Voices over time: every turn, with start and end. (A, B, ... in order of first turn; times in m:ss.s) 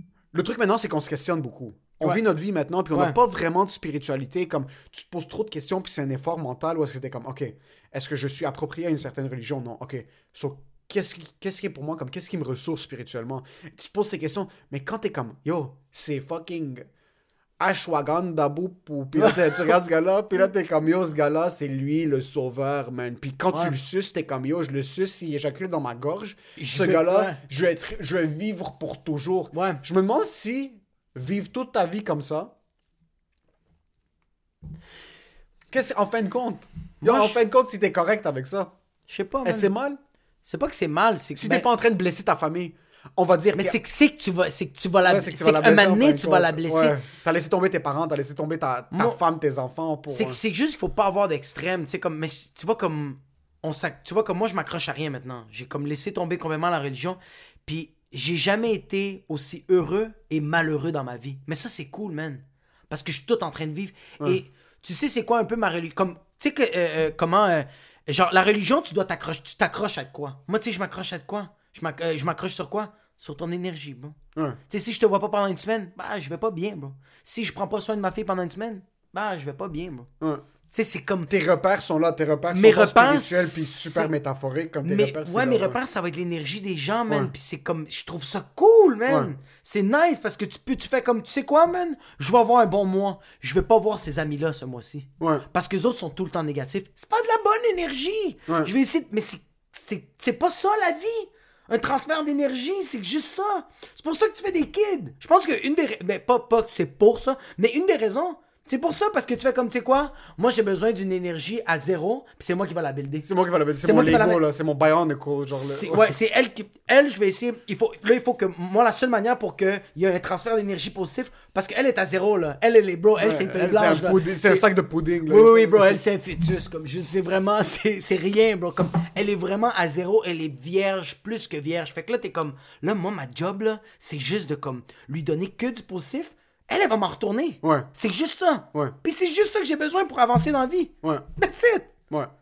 0:00.3-0:16.9 A
0:02.9-0:03.2 B
0:17.6-0:32.5 A
0:26.6-0:27.4 B
0:29.5-0:29.8 B
0:35.7-0:38.7 A
0:37.0-0:37.4 B
0:39.1-0:39.7 B
0:39.4-0:40.0 A
0:40.4-0:41.6 B
0:41.4-0:43.8 A
0:43.6-0:47.0 B
0:45.1-0:50.4 A
0:48.9-0:49.2 B
0:50.1-1:14.2 B
1:14.7-1:20.1 B
1:20.7-1:21.3 B
1:21.3-1:25.8 A
1:22.5-1:24.1 B
1:24.8-1:53.3 B
1:53.2-1:56.1 A
1:53.8-1:54.4 B
1:55.5-2:04.6 B
2:03.2-2:06.0 A
2:05.3-2:22.0 B
2:17.6-2:17.9 A